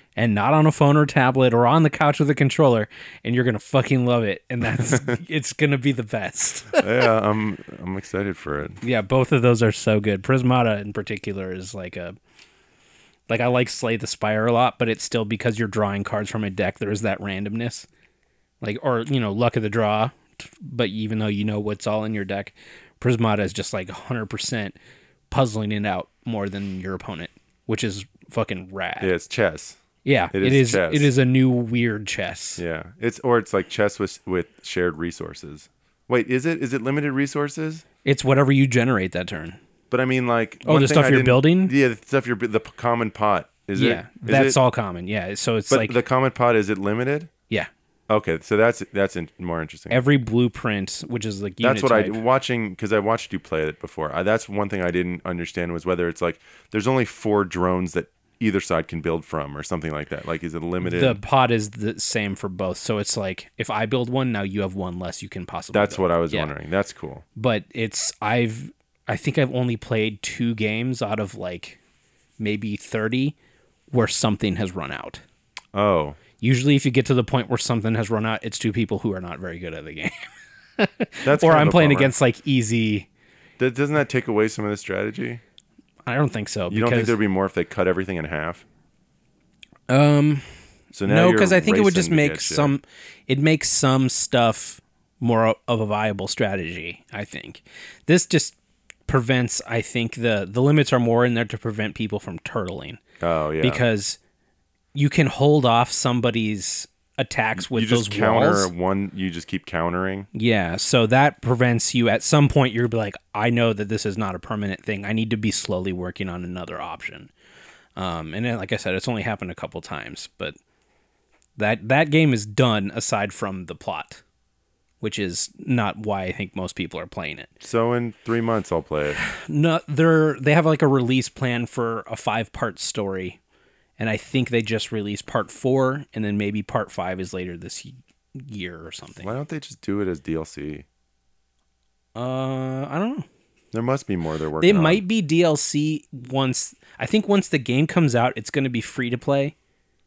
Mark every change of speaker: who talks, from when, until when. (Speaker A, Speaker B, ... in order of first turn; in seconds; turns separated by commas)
Speaker A: 0.2-6.9, Speaker B: 6.8-8.8, Speaker A: 8.8-12.2, Speaker A: 13.3-17.9, Speaker A: 18.6-24.8, Speaker A: 25.3-29.1, Speaker B: 29.0-29.8, Speaker A: 30.1-32.6, Speaker B: 30.3-31.1, Speaker B: 32.6-37.8, Speaker A: 38.0-39.6, Speaker B: 39.9-44.6, Speaker A: 40.6-41.7, Speaker A: 43.8-46.0, Speaker B: 45.7-47.3, Speaker B: 48.1-50.0, Speaker A: 49.9-52.2, Speaker B: 51.6-61.2, Speaker A: 60.8-66.5, Speaker B: 65.7-67.2, Speaker A: 67.4-71.8, Speaker A: 72.4-73.4, Speaker A: 73.9-75.2, Speaker B: 75.7-76.2, Speaker A: 76.4-80.3, Speaker A: 80.8-83.1, Speaker B: 81.2-82.1, Speaker B: 83.6-85.4, Speaker A: 86.1-87.2, Speaker B: 86.7-88.7, Speaker A: 89.9-90.5, Speaker B: 90.9-92.7, Speaker A: 91.0-98.6, Speaker A: 99.1-103.0, Speaker B: 103.2-103.8, Speaker A: 103.6-104.2, Speaker A: 104.9-108.7, Speaker B: 107.6-110.3, Speaker A: 110.3-117.3, Speaker A: 118.0-120.6, Speaker A: 121.6-124.2, Speaker A: 125.0-127.5, Speaker B: 127.6-129.2, Speaker A: 129.2-133.4, Speaker A: 134.0-139.3, Speaker B: 139.2-140.8, Speaker A: 142.2-143.3, Speaker B: 143.7-145.0, Speaker A: 144.6-149.6